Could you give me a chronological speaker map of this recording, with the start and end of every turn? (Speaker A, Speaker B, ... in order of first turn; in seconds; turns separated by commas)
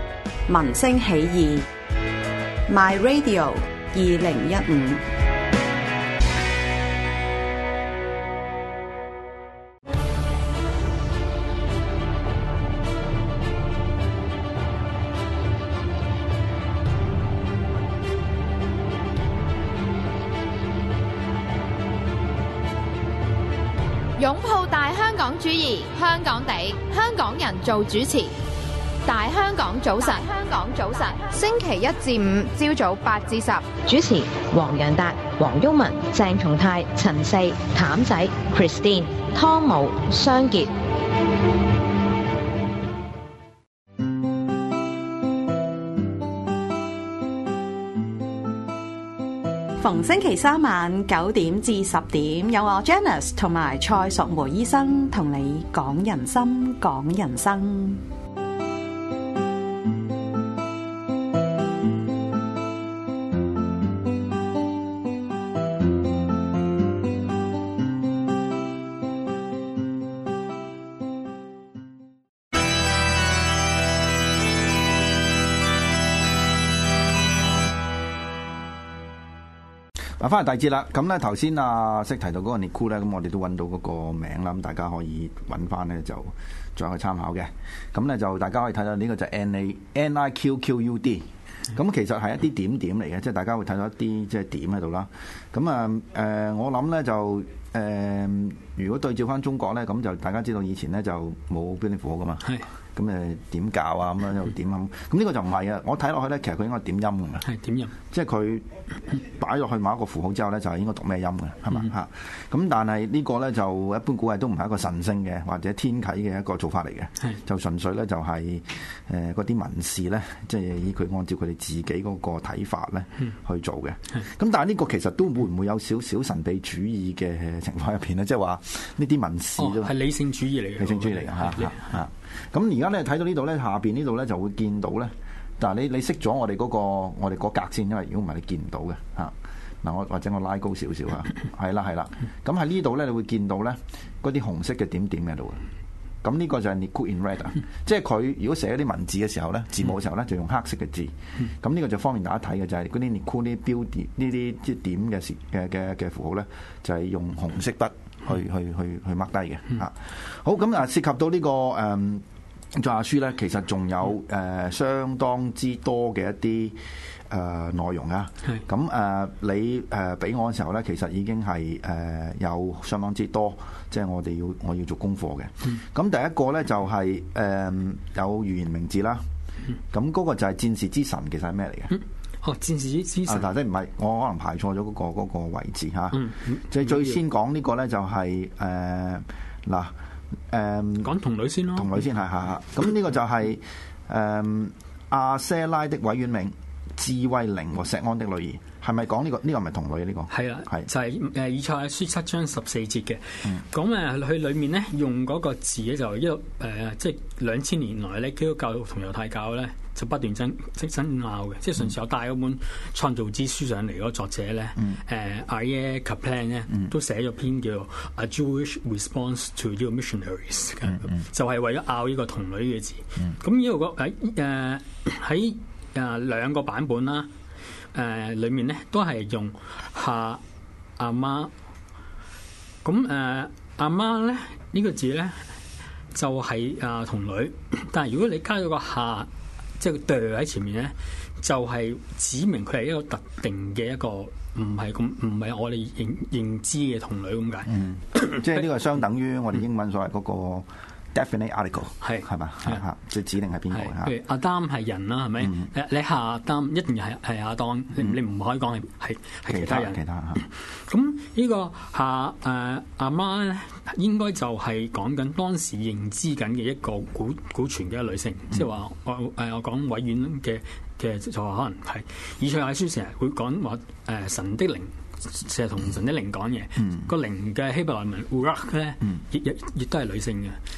Speaker A: 0.5-1.6, Speaker A: 2.7-5.0, Speaker B: 24.2-28.3, Speaker B: 29.1-33.7, Speaker C: 33.9-40.7, Speaker A: 49.8-58.0, Speaker D: 80.2-107.4, Speaker E: 107.4-107.9, Speaker D: 108.1-129.9, Speaker E: 129.6-132.0, Speaker D: 130.8-145.6, Speaker D: 146.2-166.8, Speaker D: 167.3-179.2, Speaker D: 179.9-181.9, Speaker E: 181.9-183.5, Speaker D: 183.2-189.9, Speaker E: 186.1-187.2, Speaker D: 190.5-191.1, Speaker E: 191.0-192.0, Speaker D: 191.7-200.8, Speaker E: 200.3-227.3, Speaker E: 227.9-230.4, Speaker E: 231.0-231.5, Speaker E: 232.8-235.4, Speaker E: 236.1-248.5, Speaker D: 247.7-254.1, Speaker E: 252.0-252.8, Speaker E: 253.7-280.6, Speaker D: 259.5-260.4